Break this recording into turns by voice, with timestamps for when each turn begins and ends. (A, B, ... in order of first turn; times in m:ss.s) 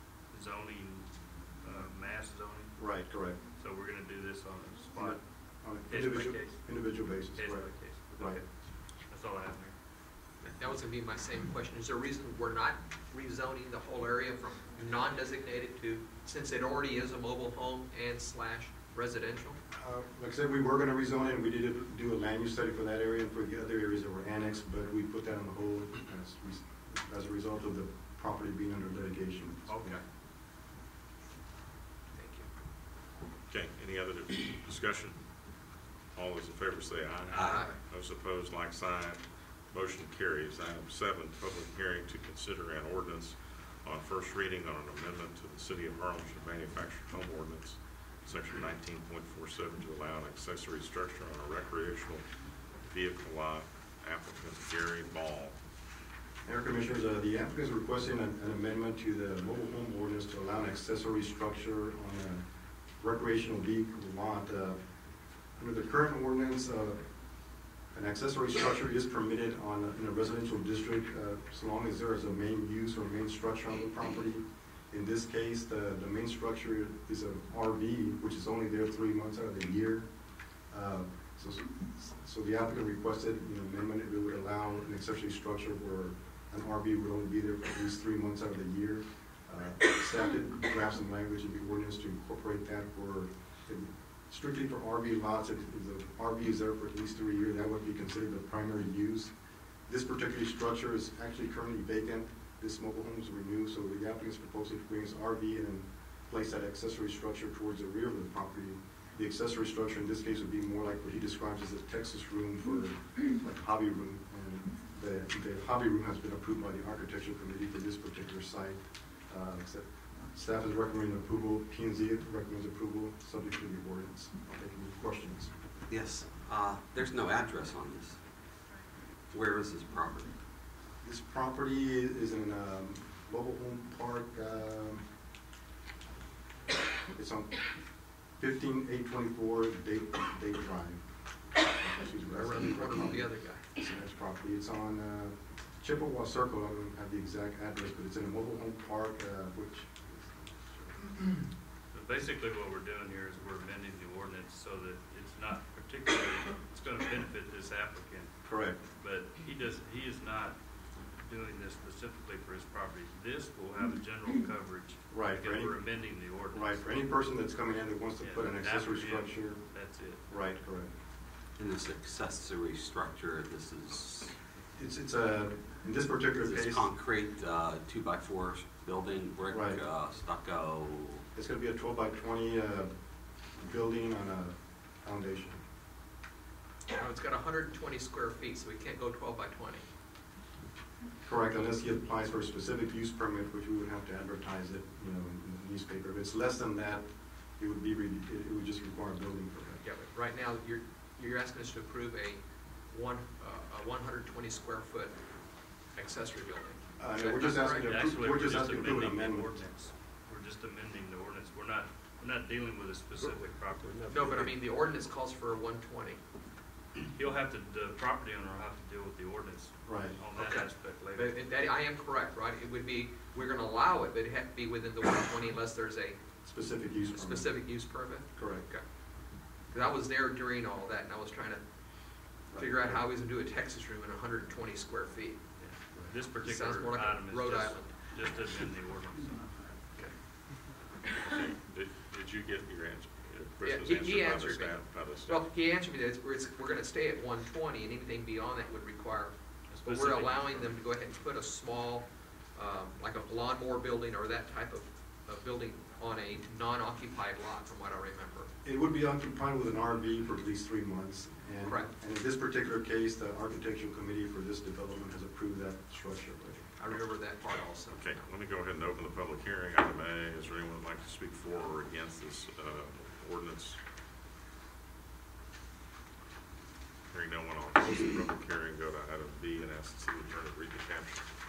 0:00.3-0:01.1 A
0:01.6-0:02.7 A
0:02.8-0:03.4 B
0:03.6-0:05.2 A
0:04.9-0:08.4 B
0:05.9-0:06.6 A
0:07.3-0:08.5 A
0:09.1-0:09.8 A
0:10.6-0:19.6 C
0:19.7-0:30.0 B
0:29.7-0:30.0 C
0:32.1-0:32.5 C
0:33.5-0:35.1 D
0:36.1-0:39.1 D
0:37.3-0:37.8 C
0:37.3-0:37.7 E
0:39.7-0:52.2 D
0:52.9-0:55.5 D
0:56.4-1:02.4 B
1:03.0-1:04.8 B
1:05.6-1:07.0 B
1:07.9-1:20.1 B
1:20.7-1:39.3 B
1:39.9-2:05.5 B
2:05.9-2:08.2 E
2:09.3-2:10.3 E
2:11.0-2:15.0 B
2:17.1-2:17.6 B
2:18.4-2:21.0 B
2:21.8-2:31.1 B
2:22.3-2:23.6 C
2:31.9-2:38.4 A
2:38.4-2:38.8 B
2:38.9-2:40.6 A
2:41.2-2:46.8 A
2:45.1-2:45.8 B
2:46.5-2:49.6 B
2:48.2-2:50.2 A
2:50.3-2:50.9 B
2:51.6-2:54.4 E
2:54.8-2:56.9 B
2:56.4-3:01.2 E
2:59.5-2:59.8 B
3:01.3-3:02.9 B
3:03.6-3:05.6 B
3:06.9-3:09.8 C
3:11.2-3:17.0 B
3:17.6-3:19.8 B
3:19.8-3:25.1 C
3:25.9-3:28.9 C
3:27.0-3:29.6 B
3:27.8-3:34.1 A
3:34.1-3:36.2 C
3:37.1-3:41.4 A
3:39.8-3:40.2 B
3:40.4-3:46.2 C
3:46.4-3:47.6 B
3:47.1-3:48.8 C
3:48.4-3:48.7 B
3:49.7-3:51.6 C
3:52.5-3:53.0 B
3:52.5-3:55.4 C
3:55.6-3:59.5 A
3:56.4-3:58.0 C
4:01.0-4:01.3 C
4:01.7-4:05.4 D
4:03.6-4:09.3 C
4:09.7-4:10.7 A
4:09.8-4:18.5 C
4:18.6-4:26.7 B
4:21.6-4:21.9 C
4:26.8-4:28.2 C
4:27.9-4:33.8 D
4:37.1-4:41.2 D